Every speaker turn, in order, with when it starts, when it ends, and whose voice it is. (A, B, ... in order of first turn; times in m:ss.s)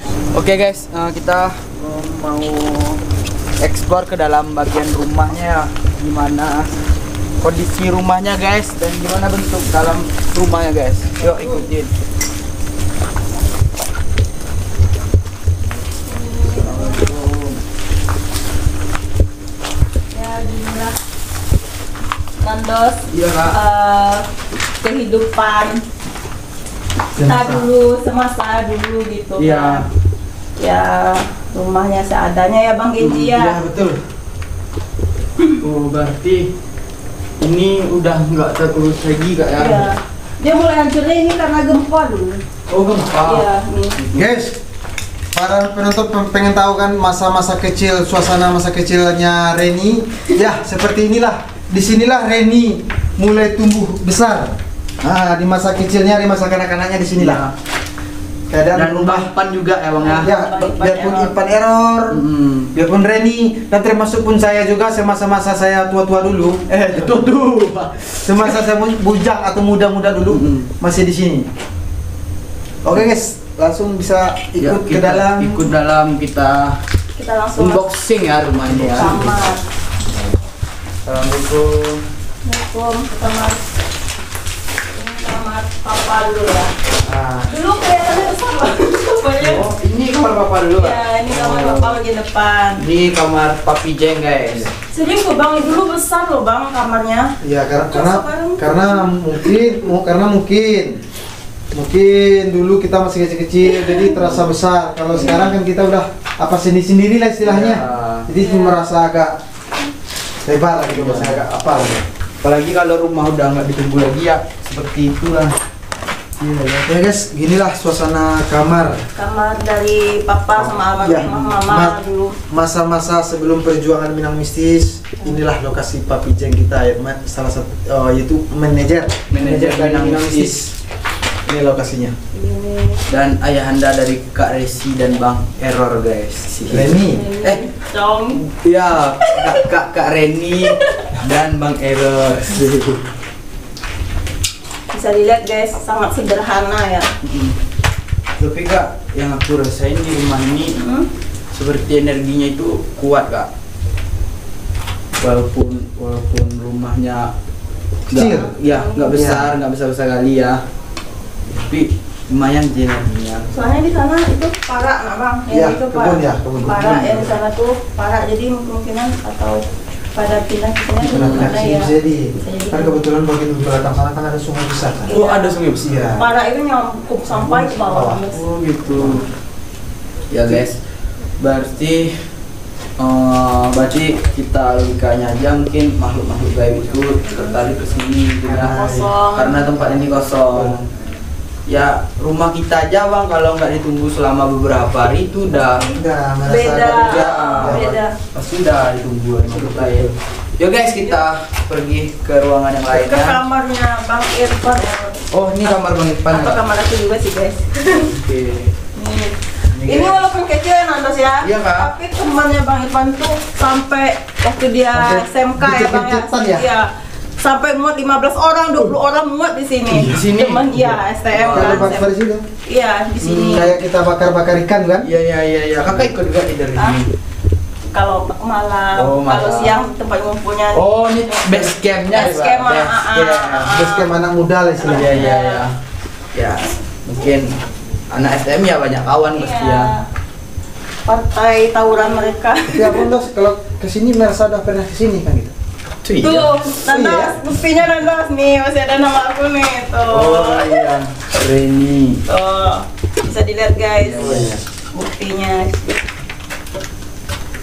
0:00.3-0:03.0 A
0:03.6-0:06.8 A
0:07.4-0:11.9 A
0:16.0-0:17.1 B
0:16.5-0:17.6 A
0:20.1-0:21.0 B
0:22.4-0:24.3 B
0:23.1-0:23.6 A
0:24.8-0:25.8 B
0:27.1-0:27.7 C
0:27.2-0:29.8 B
0:29.4-0:29.8 A
0:30.6-0:33.6 B
0:33.3-0:34.0 C
0:35.6-0:36.5 A
0:37.4-0:39.9 A
0:39.6-0:42.4 B
0:42.7-0:43.5 A
0:43.2-0:44.0 B
0:44.1-0:44.6 C
0:45.3-0:57.4 C
0:57.2-0:57.5 A
0:58.5-0:59.3 C
0:58.7-1:00.3 A
1:00.0-1:01.3 B
1:00.0-1:07.2 C
1:02.1-1:02.7 A
1:06.7-1:08.6 A
1:08.2-1:11.5 C
1:10.3-1:10.7 A
1:12.8-1:15.7 C
1:14.6-1:16.8 A
1:17.2-1:17.9 B
1:17.6-1:19.3 A
1:18.7-1:19.4 C
1:18.9-1:19.6 B
1:21.0-1:22.0 A
1:22.4-1:23.6 B
1:24.9-1:26.7 B
1:27.0-1:27.5 C
1:27.5-1:29.7 B
1:29.4-1:32.0 A
1:30.8-1:32.8 B
1:32.8-1:34.7 A
1:34.9-1:37.3 B
1:37.4-1:41.0 C
1:37.9-1:39.2 B
1:41.7-1:49.4 C
1:44.2-1:44.5 A
1:45.1-1:45.5 A
1:47.4-1:48.3 A
1:48.4-1:48.9 B
1:50.4-1:52.0 C
1:50.8-1:51.4 A
1:52.4-1:55.5 A
1:56.4-1:59.0 C
1:59.2-2:02.4 B
2:00.6-2:02.0 C
2:02.5-2:10.7 C
2:09.3-2:10.6 A
2:11.4-2:12.2 C
2:12.3-2:13.0 B
2:13.1-2:17.7 A
2:16.7-2:17.3 C
2:17.1-2:18.4 B
2:18.4-2:23.0 A
2:19.2-2:19.6 B
2:20.7-2:21.1 B
2:24.9-2:27.1 B
2:27.2-2:27.6 A
2:28.4-2:30.8 A
2:30.8-2:31.1 B
2:31.5-2:33.5 A
2:35.2-2:37.3 A
2:38.1-2:38.5 C
2:38.1-2:40.6 A
2:38.7-2:39.1 B
2:39.1-2:39.5 C
2:41.5-2:43.5 A
2:43.5-2:49.6 B
2:45.5-2:47.3 C
2:50.1-2:53.0 B
2:51.0-2:55.1 C
2:51.1-2:51.5 A
2:55.1-2:55.6 B
2:55.1-2:56.1 A
2:55.8-2:56.3 C
2:56.2-2:58.4 B
2:57.3-2:58.2 C
2:58.3-2:59.3 A
3:00.3-3:02.4 A
3:03.0-3:08.8 A
3:08.4-3:09.1 C
3:08.7-3:09.8 B
3:09.3-3:10.9 A
3:10.5-3:10.8 C
3:11.7-3:15.9 A
3:15.5-3:18.2 B
3:15.9-3:18.0 C
3:16.6-3:23.4 A
3:19.5-3:20.1 C
3:22.9-3:25.2 B
3:25.3-3:26.6 A
3:26.3-3:28.1 B
3:27.9-3:28.7 A
3:28.9-3:36.9 B
3:29.7-3:30.3 A
3:31.4-3:31.9 A
3:34.9-3:36.7 C
3:37.4-3:42.1 B
3:39.9-3:42.0 A
3:41.5-3:42.4 C
3:42.6-3:43.7 B
3:43.2-3:45.0 C
3:45.0-3:47.1 A
3:47.9-3:54.1 B
3:49.0-3:49.8 A
3:50.7-3:53.7 A
3:53.6-3:55.3 C
3:54.8-3:55.6 B
3:54.8-3:55.8 A
3:56.3-3:57.6 A
3:58.1-3:59.9 A
3:59.3-4:00.0 B
4:01.0-4:03.1 B
4:02.7-4:05.5 C
4:06.0-4:06.7 A
4:06.2-4:10.9 B
4:06.8-4:07.4 C
4:10.1-4:12.2 A
4:12.3-4:16.0 B
4:14.0-4:14.5 A
4:14.2-4:14.6 C